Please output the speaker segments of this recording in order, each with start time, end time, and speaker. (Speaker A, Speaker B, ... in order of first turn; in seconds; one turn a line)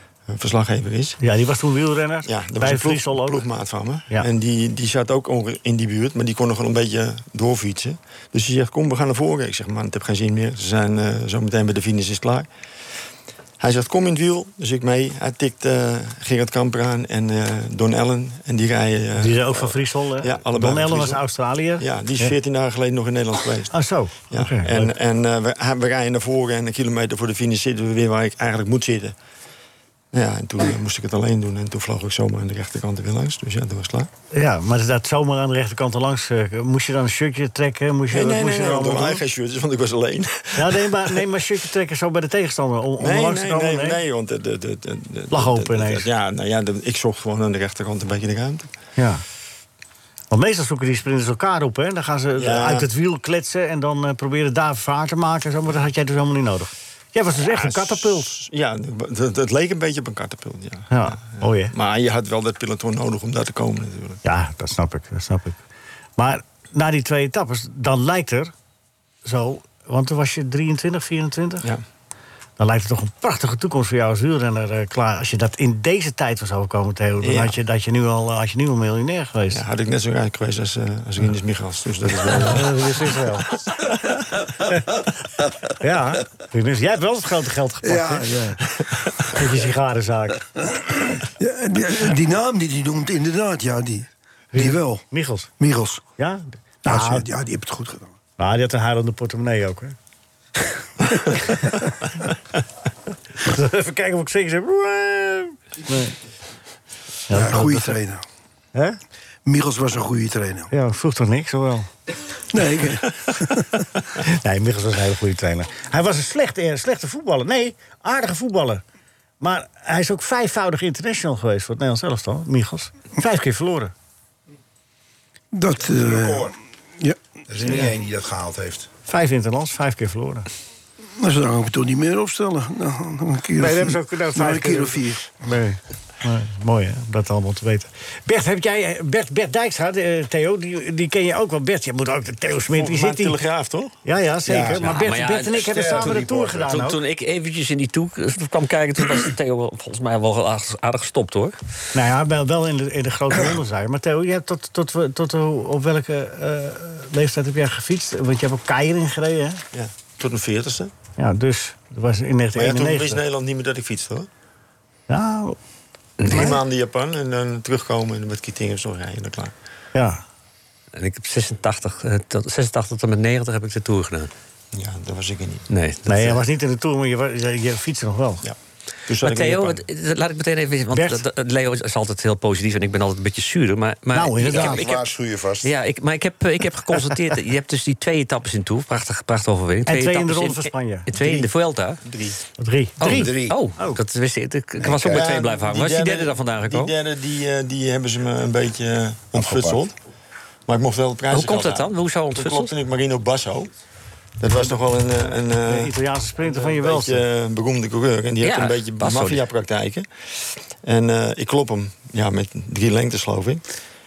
Speaker A: 0.3-1.2
Speaker B: 1.2-3.4
Speaker A: 2.2-12.5
Speaker A: 13.6-21.2
Speaker B: 19.2-22.3
Speaker A: 21.8-23.7
Speaker B: 23.7-24.9
Speaker A: 24.3-29.1
Speaker A: 30.1-34.1
Speaker B: 34.3-39.2
Speaker A: 38.1-41.2
Speaker B: 40.5-44.0
Speaker A: 43.0-48.7
Speaker B: 45.3-46.1
Speaker B: 49.0-49.2
Speaker B: 50.3-58.3
Speaker A: 52.4-52.9
Speaker A: 57.4-64.2
Speaker B: 60.9-61.7
Speaker B: 64.2-65.6
Speaker B: 66.2-68.5
Speaker B: 69.2-71.7
Speaker B: 72.6-79.6
Speaker A: 77.2-77.5
Speaker A: 79.5-82.9
Speaker B: 82.4-83.5
Speaker A: 83.7-84.1
Speaker B: 85.8-88.5
Speaker C: 87.8-88.6
Speaker B: 89.2-90.5
Speaker C: 91.4-95.0
Speaker B: 94.5-95.5
Speaker C: 95.6-96.0
Speaker B: 96.2-97.2
Speaker C: 96.8-98.1
Speaker B: 98.4-99.9
Speaker B: 103.4-106.2
Speaker B: 107.3-108.0
Speaker C: 107.3-108.2
Speaker C: 109.4-110.7
Speaker B: 110.7-111.9
Speaker C: 112.5-113.7
Speaker B: 114.2-118.8
Speaker B: 119.4-123.9
Speaker C: 125.5-127.2
Speaker D: 125.9-126.5
Speaker D: 127.5-128.9
Speaker B: 129.1-130.5
Speaker C: 131.2-135.2
Speaker B: 133.6-143.4
Speaker A: 142.7-143.9
Speaker B: 144.0-147.0
Speaker D: 144.4-146.7
Speaker E: 144.8-151.6
Speaker B: 151.9-159.6
Speaker A: 159.7-160.9
Speaker B: 161.2-163.2
Speaker A: 162.5-164.3
Speaker B: 165.1-165.6
Speaker E: 166.2-166.5
Speaker A: 166.2-169.5
Speaker B: 166.3-166.5
Speaker B: 169.9-170.2
Speaker E: 170.9-174.3
Speaker A: 174.7-175.7
Speaker E: 175.7-176.4
Speaker B: 176.1-178.4
Speaker A: 179.1-179.8
Speaker E: 179.2-185.0
Speaker B: 180.9-181.2
Speaker B: 184.1-184.9
Speaker D: 184.4-185.7
Speaker E: 185.6-192.0
Speaker B: 189.9-191.1
Speaker A: 192.0-192.4
Speaker B: 192.6-194.0
Speaker E: 193.0-196.9
Speaker D: 193.0-193.6
Speaker D: 194.8-195.3
Speaker A: 195.1-199.9
Speaker D: 199.3-199.8
Speaker A: 200.7-203.7
Speaker E: 201.3-202.7
Speaker A: 204.4-205.9
Speaker B: 205.6-207.2
Speaker A: 206.5-210.1
Speaker E: 208.4-209.4
Speaker A: 210.8-213.6